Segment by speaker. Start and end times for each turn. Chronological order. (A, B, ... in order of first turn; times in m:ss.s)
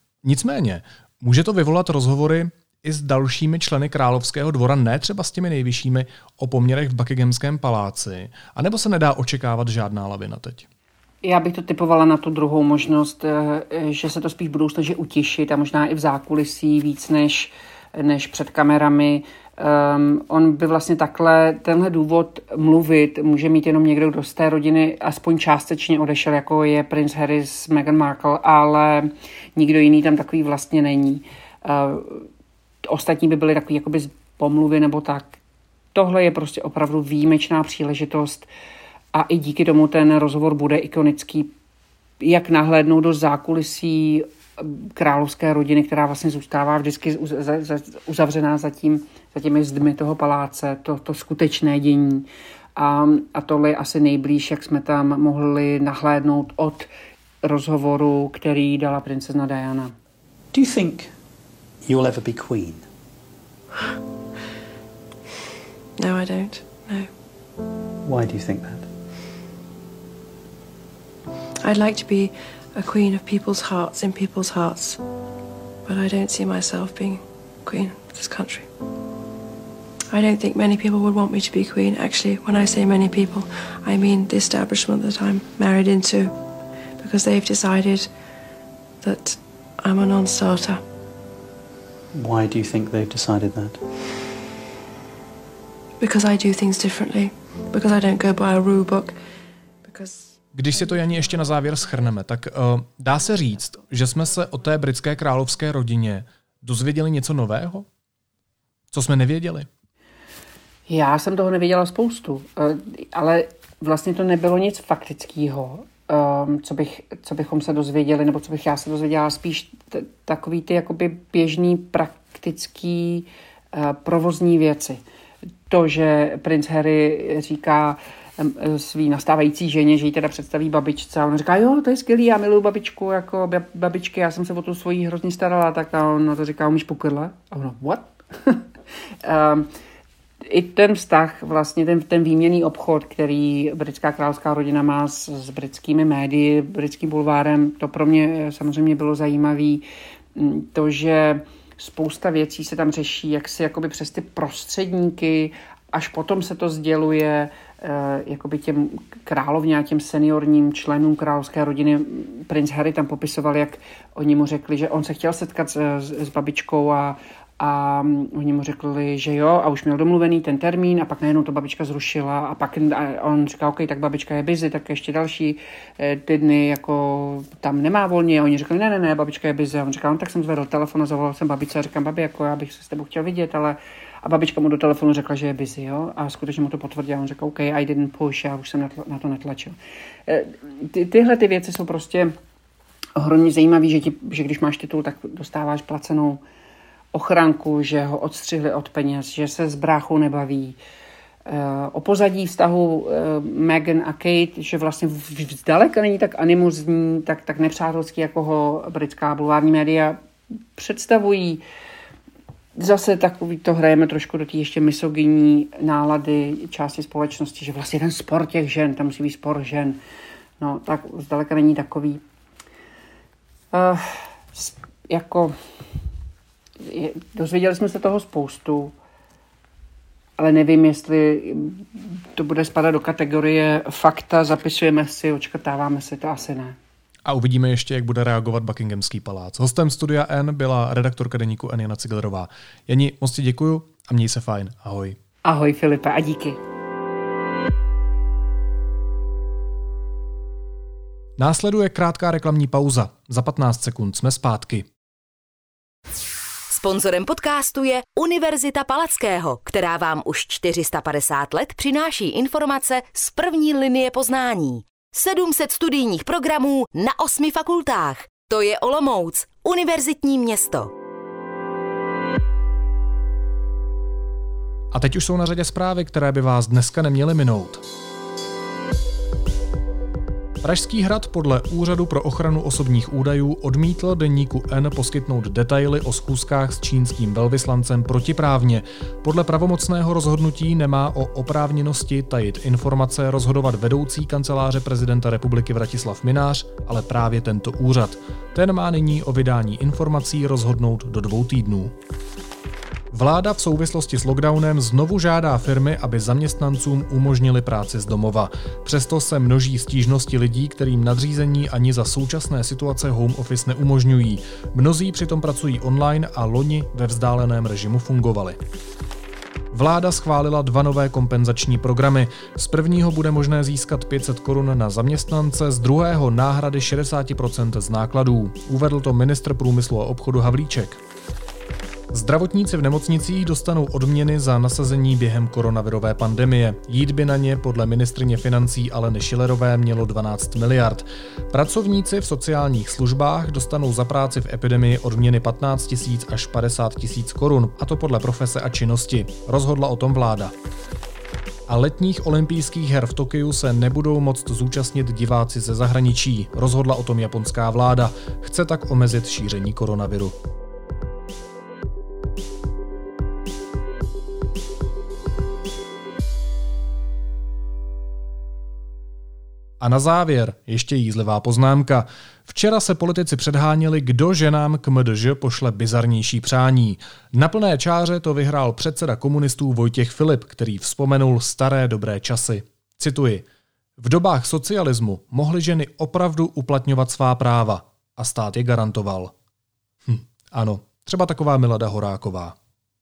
0:00.2-0:10.7 A
0:11.2-0:32.3 B
0:32.8-0:35.3 B
0:35.9-0:38.5 B
0:39.1-0:41.5 B
0:42.2-0:56.9 B
0:57.4-0:59.9 B
1:00.5-1:01.1 C
1:01.8-1:02.9 C
1:06.0-1:07.2 D
1:08.0-1:08.9 C
1:11.6-1:15.0 D
1:15.8-1:18.7 D
1:20.1-1:28.1 D
1:29.0-1:30.8 D
1:32.1-1:33.8 C
1:36.0-1:39.2 D
1:39.8-1:40.4 D
1:40.6-1:47.9 A
1:48.9-1:49.7 A
1:50.9-2:05.0 B
2:05.7-2:18.6 B
2:19.2-2:19.7 B
2:20.5-3:09.8 B
3:10.3-3:12.3 B
3:13.2-3:16.4 B
3:17.1-3:20.8 B
3:21.5-3:30.2 B
3:30.8-3:31.6 B
3:32.8-3:40.0 B
3:40.6-3:42.2 B
3:43.7-3:45.5 B
3:46.8-3:48.9 B
3:50.4-3:56.8 B
3:57.2-4:05.2 A
4:05.4-4:06.6 B
4:11.4-4:14.9 A
4:16.7-4:30.9 E
4:34.9-4:37.8 A
4:40.6-5:01.9 A
5:03.1-5:18.6 A
5:19.7-5:31.0 A
5:32.1-5:50.5 A
5:51.7-6:00.4 A
6:09.8-6:23.4 A
6:24.0-6:29.3 A
6:30.1-6:32.6 A